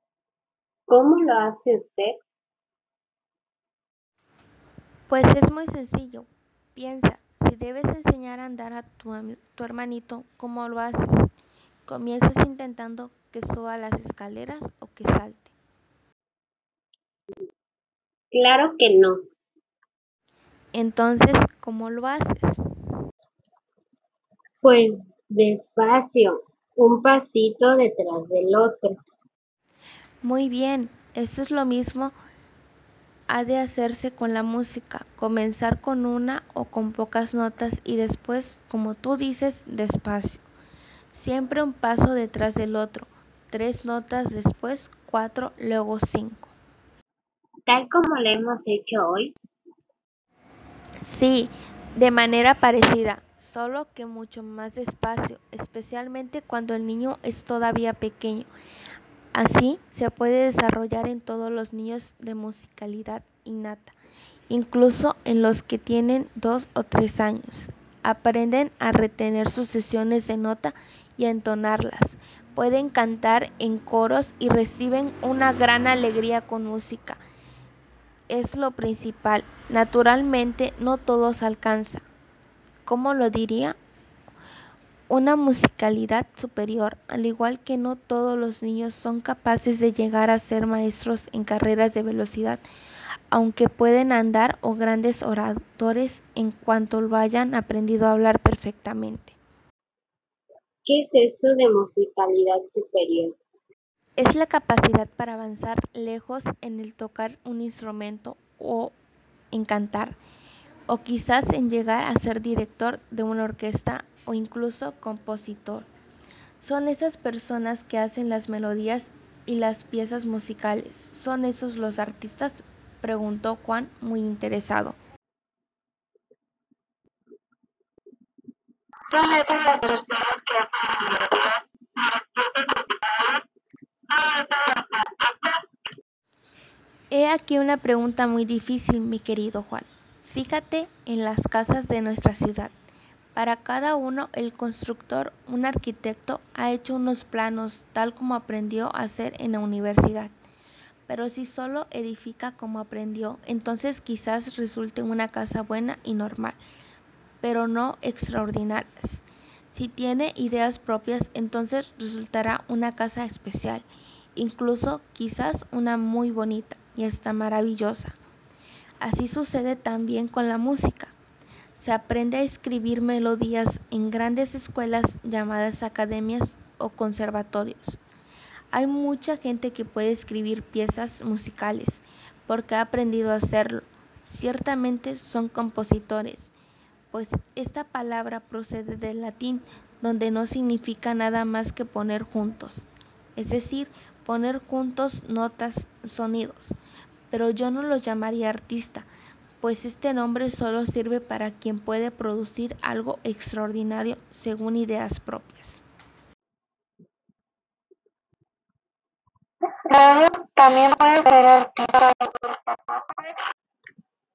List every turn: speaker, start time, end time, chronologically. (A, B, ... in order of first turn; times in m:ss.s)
0:00.9-0:02.2 A
0:05.1-0:11.3 B
0:11.9-0:15.5 B
0:18.3-0:19.2 A
0:20.7-0:22.6 B
0:24.6-0:29.0 A
0:30.2-0:32.2 B
0:33.3-0:40.4 B
0:41.1-0:46.5 B
0:47.7-0:49.4 A
0:51.0-0:58.5 B
0:59.3-1:04.0 B
1:04.5-1:17.2 B
1:18.3-1:22.1 B
1:22.8-1:23.8 B
1:25.1-1:32.6 B
1:33.3-1:39.4 B
1:40.8-1:43.4 A
1:44.2-1:49.0 B
1:49.5-1:50.2 B
1:50.9-1:55.9 B
1:56.6-2:05.0 B
2:09.1-2:13.4 C
2:14.0-2:15.7 C
2:17.1-2:22.7 B
2:23.4-2:30.3 B
2:31.1-2:36.6 B
2:37.4-2:43.8 B
2:44.4-2:48.2 B
2:49.0-2:51.1 B
2:51.8-2:58.0 B
2:58.7-3:06.5 B
3:07.1-3:16.8 B
3:17.3-3:19.1 B
3:19.6-3:25.8 B
3:29.9-3:33.4 C